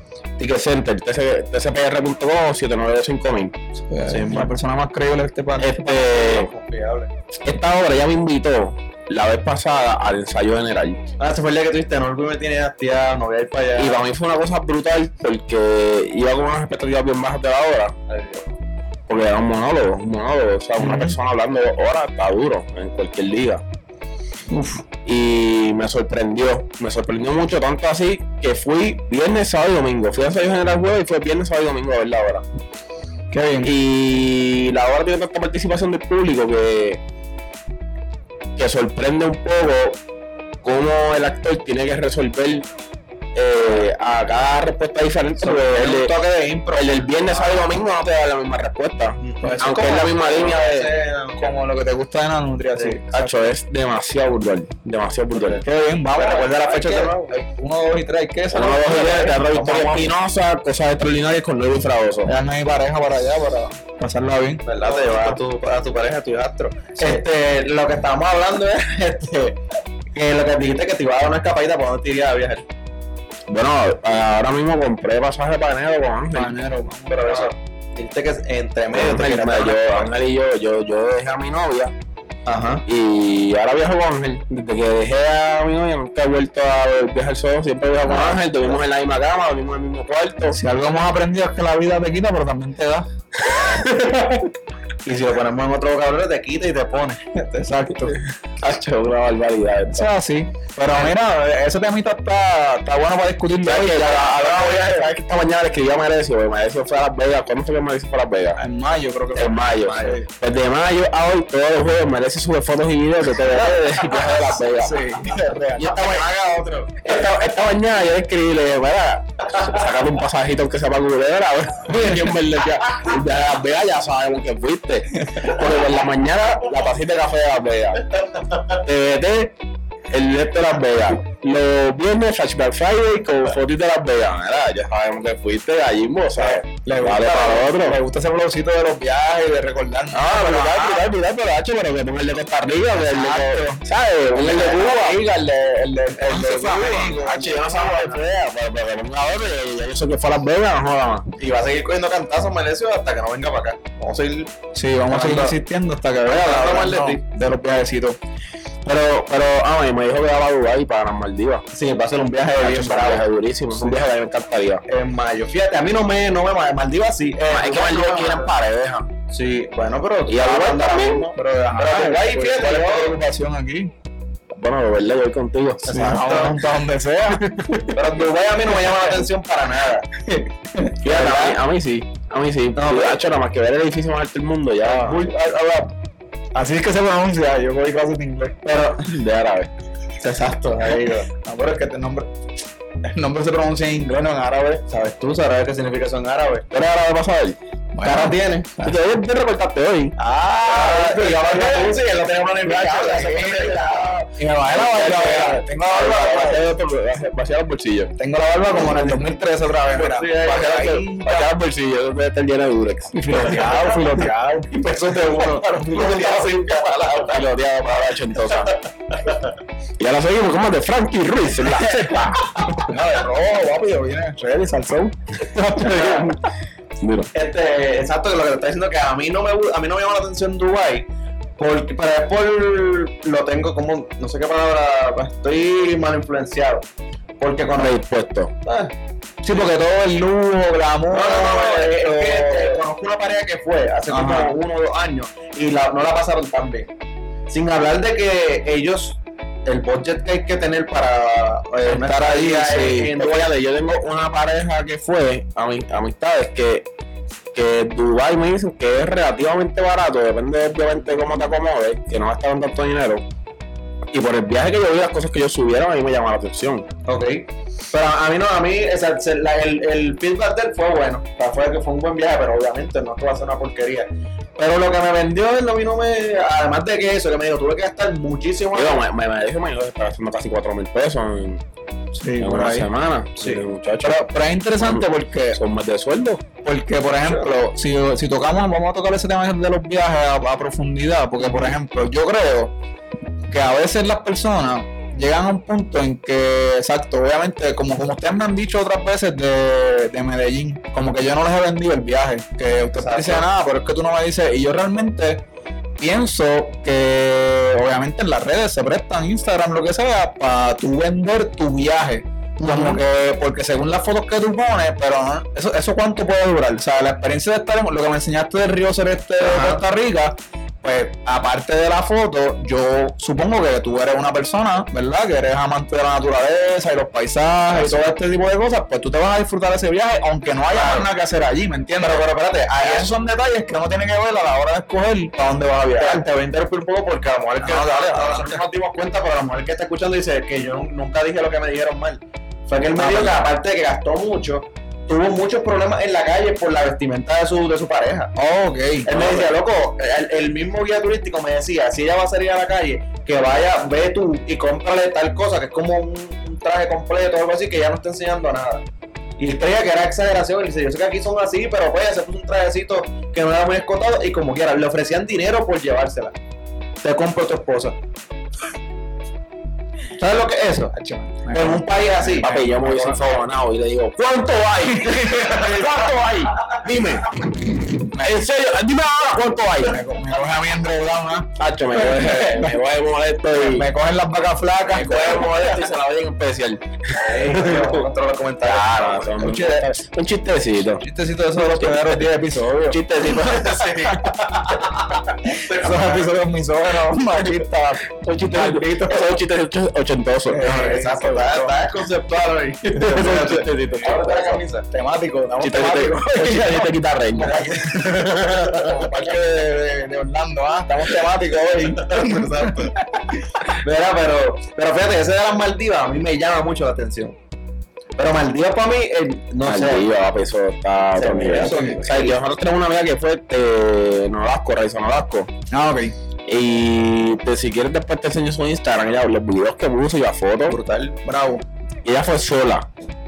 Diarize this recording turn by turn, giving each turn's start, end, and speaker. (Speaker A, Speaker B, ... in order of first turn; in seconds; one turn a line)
Speaker A: 0.4-3.5
Speaker B: 3.8-6.0
Speaker C: 4.1-4.5
Speaker A: 5.6-6.5
Speaker C: 5.9-7.1
Speaker A: 7.4-11.0
Speaker C: 11.2-14.0
Speaker A: 13.8-18.0
Speaker C: 18.1-18.5
Speaker A: 19.1-23.6
Speaker B: 20.8-21.2
Speaker B: 24.5-24.8
Speaker A: 25.0-32.5
Speaker B: 33.3-33.7
Speaker A: 33.6-37.0
Speaker A: 38.6-40.0
Speaker A: 40.6-42.7
Speaker A: 43.4-46.1
Speaker C: 45.4-47.6
Speaker A: 46.7-50.9
Speaker C: 49.2-51.5
Speaker B: 49.4-49.9
Speaker B: 51.4-53.4
Speaker A: 53.1-55.6
Speaker C: 55.3-57.3
Speaker B: 55.6-60.1
Speaker A: 58.5-62.3
Speaker B: 62.3-65.3
Speaker C: 64.7-69.6
Speaker C: 70.1-72.6
Speaker A: 73.5-77.5
Speaker B: 76.3-77.5
Speaker C: 77.3-80.1
Speaker A: 78.9-81.9
Speaker C: 82.5-82.8
Speaker A: 82.9-90.6
Speaker C: 88.1-88.5
Speaker B: 90.5-93.1
Speaker C: 93.8-94.4
Speaker C: 95.0-97.4
Speaker B: 97.4-98.2
Speaker A: 98.6-100.1
Speaker B: 99.9-105.0
Speaker A: 103.6-108.6
Speaker B: 108.6-110.3
Speaker A: 109.3-115.2
Speaker C: 109.9-110.2
Speaker C: 113.7-114.3
Speaker B: 114.6-116.0
Speaker C: 115.8-117.3
Speaker A: 115.8-116.2
Speaker A: 117.0-128.0
Speaker A: 128.8-129.5
Speaker A: 130.1-138.0
Speaker B: 136.4-141.1
Speaker A: 140.1-145.3
Speaker B: 143.0-143.8
Speaker B: 144.4-148.2
Speaker C: 144.5-144.9
Speaker A: 146.1-151.3
Speaker C: 151.4-154.5
Speaker B: 154.7-158.2
Speaker C: 155.1-155.6
Speaker C: 156.3-157.2
Speaker A: 158.8-161.7
Speaker C: 161.7-164.0
Speaker A: 162.6-164.8
Speaker C: 164.9-168.5
Speaker A: 167.5-169.1
Speaker C: 169.3-173.1
Speaker A: 170.3-171.2
Speaker B: 171.3-173.9
Speaker A: 174.5-175.8
Speaker C: 175.8-176.6
Speaker B: 175.9-178.0
Speaker C: 177.9-180.1
Speaker B: 180.3-180.9
Speaker A: 181.0-185.2
Speaker C: 181.0-181.6
Speaker C: 182.8-183.2
Speaker B: 184.8-185.9
Speaker B: 186.6-188.6
Speaker A: 188.7-189.7
Speaker C: 190.2-191.3
Speaker B: 191.3-192.3
Speaker B: 193.1-194.8
Speaker C: 194.9-196.7
Speaker A: 196.7-197.6
Speaker B: 197.9-198.4
Speaker C: 198.0-199.0
Speaker A: 198.8-200.2
Speaker B: 200.2-202.0
Speaker C: 200.7-204.2
Speaker B: 202.7-206.6
Speaker A: 203.4-208.1
Speaker C: 205.2-205.5
Speaker B: 208.2-211.5
Speaker C: 209.9-211.0
Speaker A: 210.5-213.9
Speaker B: 213.1-214.3
Speaker C: 213.3-217.5
Speaker A: 215.7-218.8
Speaker C: 218.1-219.5
Speaker A: 220.0-222.3
Speaker B: 221.9-226.0
Speaker C: 225.8-226.3
Speaker A: 225.8-226.4
Speaker A: 227.0-227.3
Speaker C: 227.3-231.1
Speaker C: 231.6-236.8
Speaker C: 237.4-238.0
Speaker A: 237.8-238.5
Speaker C: 238.7-238.9
Speaker B: 239.4-242.8
Speaker C: 241.1-246.9
Speaker B: 244.1-244.6
Speaker C: 247.5-253.5
Speaker A: 251.8-256.9
Speaker A: 257.5-263.2
Speaker A: 264.1-266.9
Speaker C: 267.1-279.0
Speaker A: 278.7-281.6
Speaker B: 282.1-282.9
Speaker A: 282.4-284.3
Speaker C: 283.4-283.6
Speaker B: 284.0-285.6
Speaker A: 284.8-286.4
Speaker B: 286.6-292.7
Speaker C: 287.1-287.5
Speaker C: 291.5-291.7
Speaker B: 293.5-305.4
Speaker C: 302.9-303.5
Speaker B: 306.0-336.2
Speaker C: 312.6-313.0
Speaker C: 319.4-319.8
Speaker C: 327.7-328.0
Speaker C: 330.7-331.1
Speaker C: 332.0-333.1
Speaker C: 336.0-348.3
Speaker B: 337.6-338.6
Speaker B: 343.0-343.5
Speaker B: 348.4-349.1
Speaker C: 349.1-358.8
Speaker A: 349.1-349.5
Speaker C: 359.4-366.4
Speaker C: 367.0-368.0
Speaker C: 370.2-370.9
Speaker B: 370.9-373.2
Speaker C: 371.5-372.6
Speaker A: 372.4-377.6
Speaker B: 375.1-375.6
Speaker B: 378.1-378.4
Speaker A: 378.2-380.0
Speaker B: 379.8-382.7
Speaker A: 381.6-383.9
Speaker B: 383.5-385.9
Speaker A: 384.9-388.1
Speaker C: 387.2-389.5
Speaker A: 388.6-391.0
Speaker B: 389.4-389.9
Speaker B: 391.0-393.0
Speaker A: 391.6-392.2
Speaker A: 392.9-394.3
Speaker C: 393.2-396.3
Speaker B: 395.4-399.4
Speaker A: 398.2-400.8
Speaker B: 400.5-401.8
Speaker C: 400.6-404.9
Speaker A: 403.0-404.6
Speaker B: 404.9-413.4
Speaker A: 405.6-408.2
Speaker C: 407.4-409.1
Speaker C: 411.5-413.0
Speaker C: 413.7-417.4
Speaker C: 418.2-420.1
Speaker A: 419.6-425.5
Speaker C: 421.2-422.4
Speaker B: 421.6-422.0
Speaker B: 425.7-426.1
Speaker A: 426.5-430.8
Speaker C: 430.7-431.2
Speaker B: 431.2-431.6
Speaker A: 432.0-432.9